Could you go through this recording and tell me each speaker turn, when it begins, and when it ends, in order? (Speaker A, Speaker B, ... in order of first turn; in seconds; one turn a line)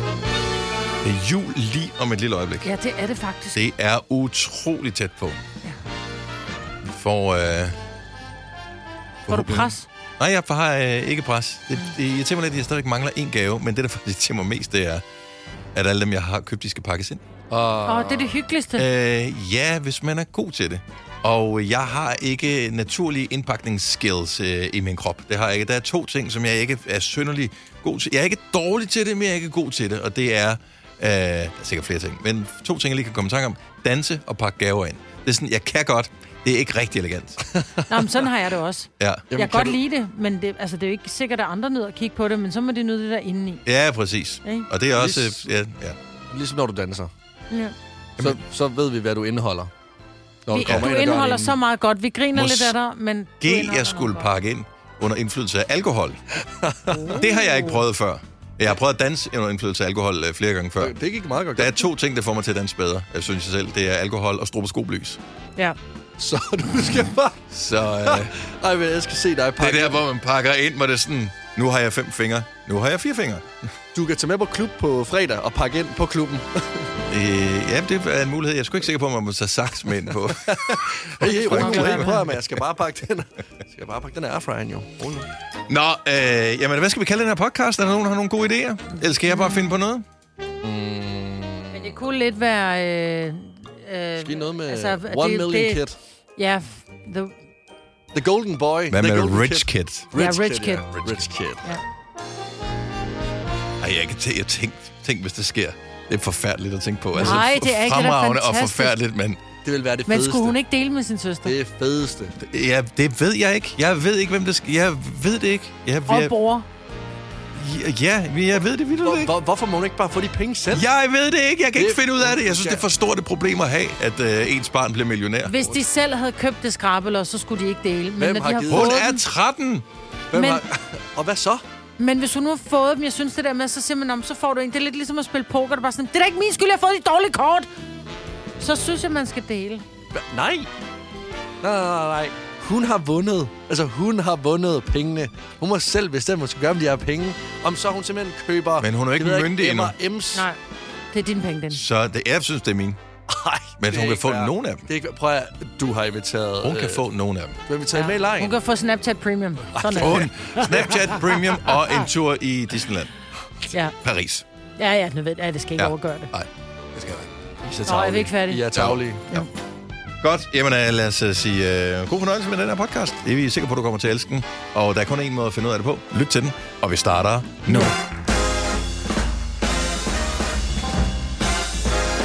Speaker A: 1.0-2.7
Speaker B: 2.6-3.6
Speaker A: 3.5-5.4
Speaker A: 6.8-7.8
Speaker A: 9.3-15.1
Speaker B: 9.3-9.9
Speaker A: 15.7-17.2
Speaker C: 17.5-18.4
Speaker B: 17.9-18.9
Speaker A: 18.8-37.4
Speaker B: 37.9-43.6
Speaker A: 39.0-39.3
Speaker C: 39.3-39.8
Speaker A: 43.6-46.0
Speaker C: 45.0-45.4
Speaker C: 46.3-47.1
Speaker C: 48.2-49.7
Speaker C: 50.5-51.6
Speaker B: 50.5-54.3
Speaker A: 50.6-50.9
Speaker A: 52.3-52.8
Speaker A: 53.4-56.2
Speaker C: 56.5-57.1
Speaker B: 56.9-57.8
Speaker A: 57.1-61.0
Speaker C: 60.8-61.8
Speaker A: 61.5-65.2
Speaker C: 66.2-67.4
Speaker A: 67.5-68.3
Speaker C: 68.1-70.0
Speaker A: 69.6-73.7
Speaker C: 73.9-76.9
Speaker A: 77.1-82.3
Speaker C: 80.5-85.3
Speaker B: 81.3-82.3
Speaker A: 85.7-90.0
Speaker B: 89.3-89.7
Speaker C: 90.6-92.0
Speaker B: 91.7-95.8
Speaker C: 94.2-96.0
Speaker B: 96.4-97.3
Speaker C: 98.1-101.7
Speaker A: 98.9-100.2
Speaker B: 100.2-100.9
Speaker A: 100.9-101.4
Speaker A: 103.8-109.4
Speaker B: 107.1-109.0
Speaker C: 109.6-110.6
Speaker B: 110.1-111.5
Speaker C: 111.4-112.3
Speaker A: 112.4-116.3
Speaker B: 116.1-116.7
Speaker A: 117.5-119.3
Speaker C: 119.0-120.9
Speaker A: 120.7-125.6
Speaker C: 121.8-122.9
Speaker B: 125.5-129.2
Speaker C: 128.2-129.0
Speaker A: 128.7-129.9
Speaker C: 130.3-131.6
Speaker B: 130.3-130.6
Speaker B: 132.0-137.7
Speaker B: 138.6-139.8
Speaker C: 140.1-140.7
Speaker C: 141.6-150.5
Speaker A: 148.8-150.0
Speaker B: 151.1-151.8
Speaker A: 151.7-153.0
Speaker C: 153.3-157.0
Speaker A: 153.8-154.9
Speaker A: 156.6-157.6
Speaker C: 157.7-158.6
Speaker B: 157.9-161.8
Speaker C: 159.7-161.0
Speaker A: 159.9-163.1
Speaker A: 164.0-164.4
Speaker B: 164.8-166.3
Speaker A: 165.8-166.5
Speaker C: 167.0-169.2
Speaker B: 167.9-168.6
Speaker A: 168.7-169.5
Speaker A: 170.2-177.9
Speaker B: 177.7-177.9